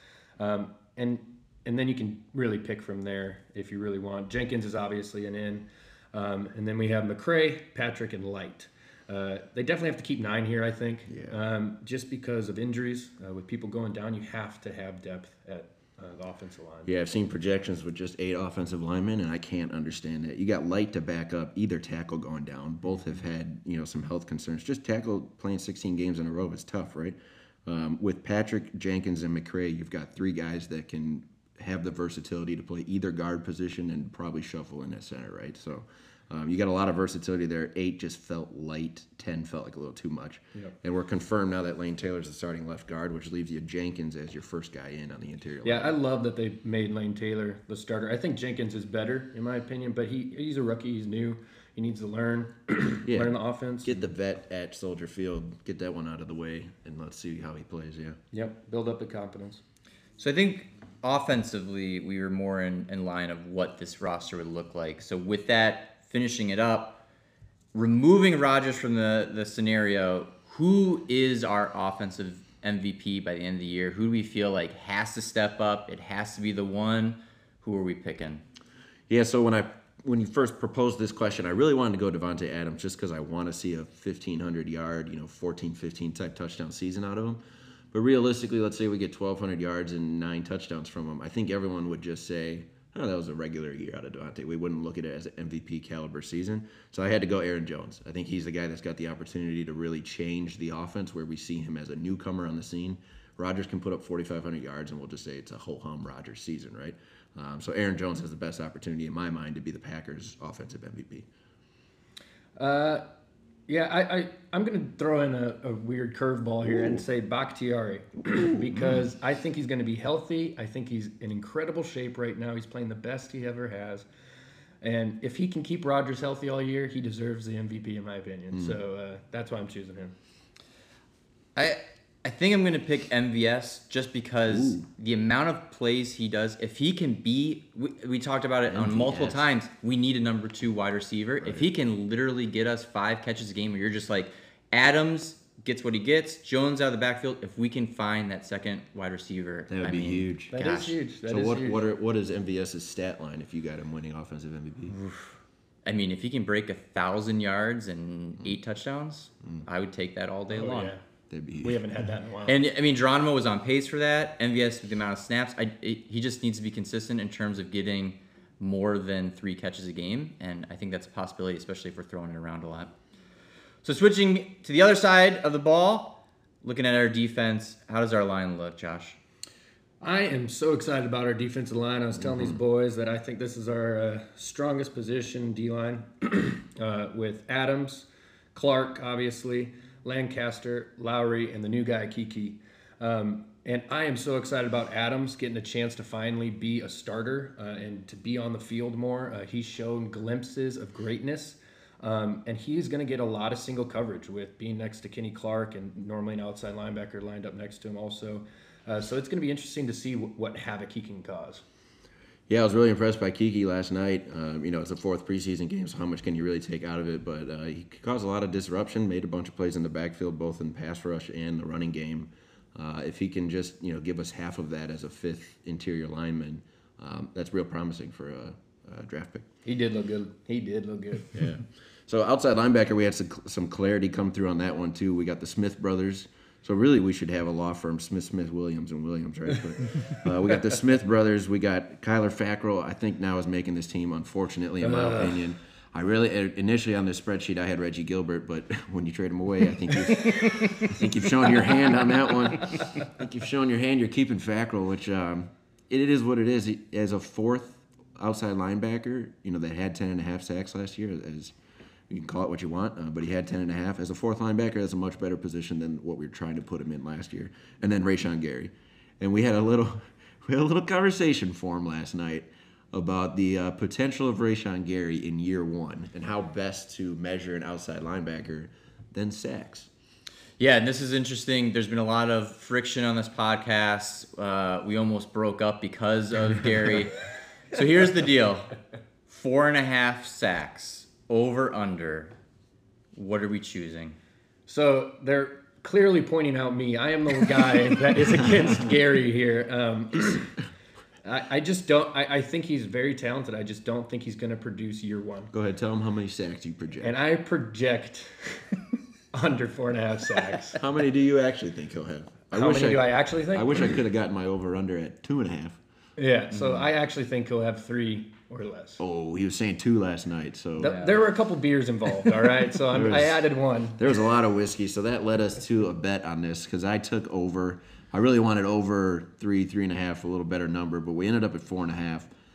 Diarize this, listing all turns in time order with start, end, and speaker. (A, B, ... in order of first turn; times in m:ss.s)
0:00.4-0:16.9 A
0:11.1-0:11.4 B
0:16.8-0:46.0 B
0:45.6-0:54.0 A
0:53.0-0:58.2 B
0:58.3-0:59.6 A
1:00.2-1:07.0 C
1:07.7-1:18.4 C
1:19.1-1:27.4 B
1:27.9-1:51.3 B
1:52.6-1:53.0 A
1:53.7-2:04.0 A
2:04.8-2:10.1 A
2:08.5-2:08.8 B
2:11.6-2:30.9 C
2:14.5-2:14.8 B
2:18.7-2:19.5 B
2:21.4-2:21.7 B
2:29.7-2:30.5 B
2:30.5-2:31.8 A
2:31.2-2:35.0 B
2:35.0-2:35.2 C
2:35.8-2:40.9 C
2:40.5-2:41.0 A
2:41.3-2:41.8 B
2:41.6-2:42.6 A
2:42.4-2:52.9 C
2:53.8-2:59.2 C
3:00.0-3:31.6 A
3:02.2-3:02.6 B
3:32.5-3:49.5 B
3:49.6-3:51.4 A
3:51.3-4:21.5 B
4:04.8-4:05.5 A
4:22.1-4:39.9 B
4:40.6-4:47.1 C
4:47.7-4:48.7 C
4:49.3-4:52.3 C
4:53.1-4:54.2 C
4:54.7-5:00.6 A
5:01.2-5:05.5 A
5:05.5-5:07.2 B
5:07.0-5:10.8 A
5:10.8-5:15.8 B
5:12.5-5:14.0 A
5:16.2-5:19.0 A
5:19.0-5:21.1 B
5:20.8-5:24.0 A
5:20.8-5:21.1 C
5:22.9-5:23.4 B
5:23.9-5:32.3 B